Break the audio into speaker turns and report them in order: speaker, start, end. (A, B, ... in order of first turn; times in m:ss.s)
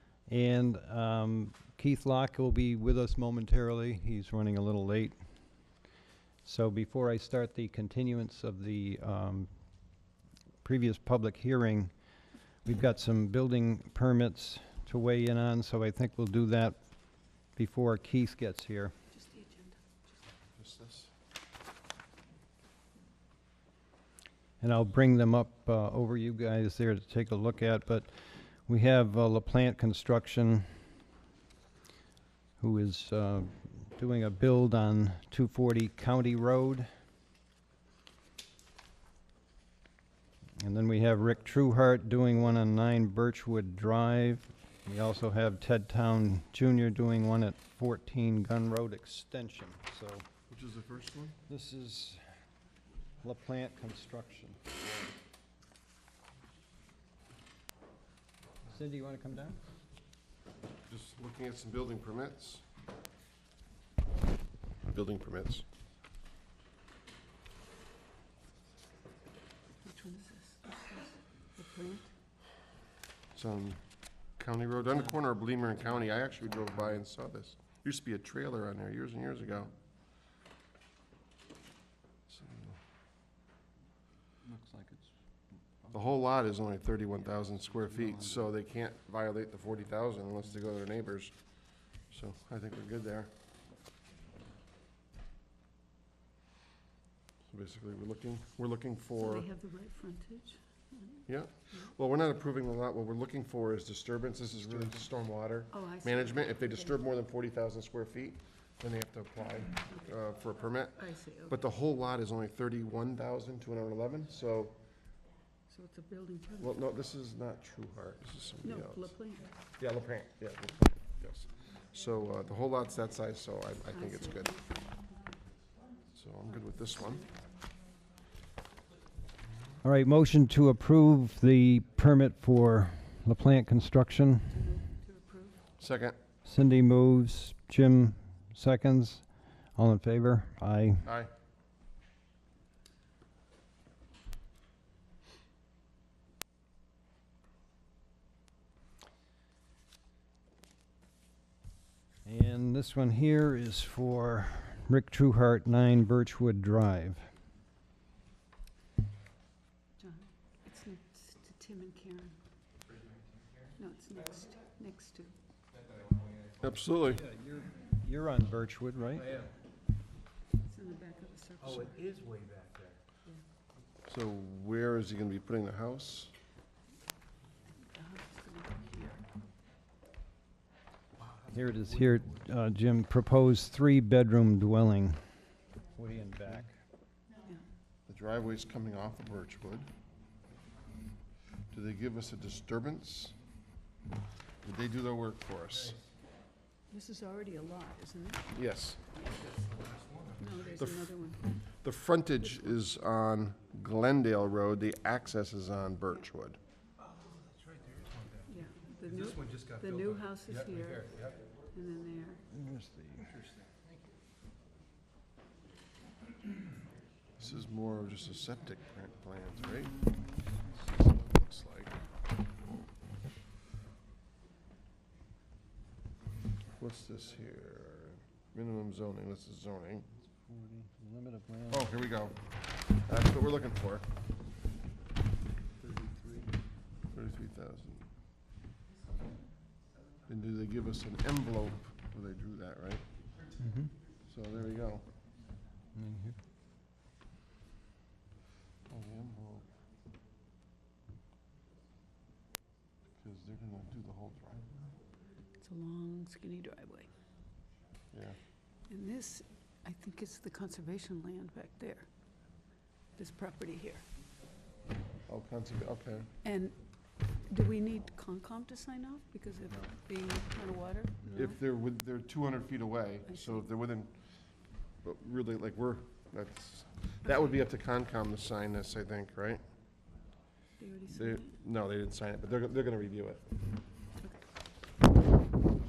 0:00.3-0:05.2 A
0:06.4-0:09.5 A
0:10.6-0:11.9 A
0:12.6-0:16.8 A
0:17.6-0:18.9 A
0:19.1-0:20.1 B
0:20.6-0:21.1 C
0:24.6-0:30.7 A
0:32.6-0:36.9 A
0:40.6-0:50.3 A
0:50.5-0:51.4 C
0:51.5-0:52.2 A
0:53.2-0:54.8 A
0:58.7-0:59.6 A
1:00.9-1:02.6 C
1:04.8-1:05.6 C
1:09.8-1:12.1 B
1:13.3-1:13.8 C
1:14.4-1:19.7 C
1:22.3-1:22.8 C
1:24.5-1:25.1 D
1:25.9-1:31.3 C
1:32.1-1:33.3 C
1:37.5-1:39.5 C
1:39.2-1:41.2 B
1:41.3-1:54.7 C
1:45.7-1:46.9 B
1:51.0-1:51.6 B
1:55.7-1:56.7 B
1:56.6-1:59.1 C
1:58.6-1:59.5 B
1:59.8-2:04.5 C
2:03.9-2:05.0 B
2:06.1-2:07.3 C
2:09.8-2:14.6 A
2:14.5-2:15.6 B
2:15.8-2:16.2 C
2:16.4-2:21.1 A
2:21.0-2:21.3 C
2:32.2-2:37.3 A
2:40.0-2:42.4 B
2:43.8-2:45.3 B
2:46.6-2:47.2 C
2:47.1-2:49.4 A
2:50.6-2:52.0 B
2:51.8-2:53.0 D
2:54.1-2:56.3 C
2:57.9-2:59.2 B
3:01.5-3:05.2 A
3:05.9-3:06.7 A
3:08.1-3:09.9 C
3:11.7-3:13.3 C
3:14.6-3:16.0 C
3:16.9-3:18.4 B
3:18.5-3:19.0 C
3:19.5-3:20.5 D
3:20.4-3:21.6 B
3:20.8-3:21.1 C
3:21.8-3:26.6 C
3:27.2-3:28.4 D
3:28.5-3:32.4 B
3:29.2-3:30.0 D
3:30.8-3:31.3 D
3:32.5-3:33.3 A
3:37.4-3:40.0 C
3:40.7-3:42.0 C
3:46.8-3:50.0 C
3:50.3-3:51.9 A
3:51.7-3:52.4 C
3:53.0-3:54.0 C
3:56.0-3:56.4 A
3:57.1-3:58.0 C
4:00.3-4:03.0 C
4:03.6-4:03.9 A
4:04.3-4:05.0 C
4:05.9-4:06.4 A
4:08.9-4:09.7 C
4:13.2-4:14.7 C
4:15.6-4:17.1 B
4:18.1-4:18.4 C
4:18.9-4:22.1 B
4:23.2-4:24.0 B
4:25.3-4:26.3 C
4:26.4-4:26.8 B
4:27.5-4:31.6 B
4:31.3-4:34.1 C
4:33.3-4:33.6 B
4:35.0-4:39.6 C
4:40.8-4:41.5 B
4:41.1-4:43.5 C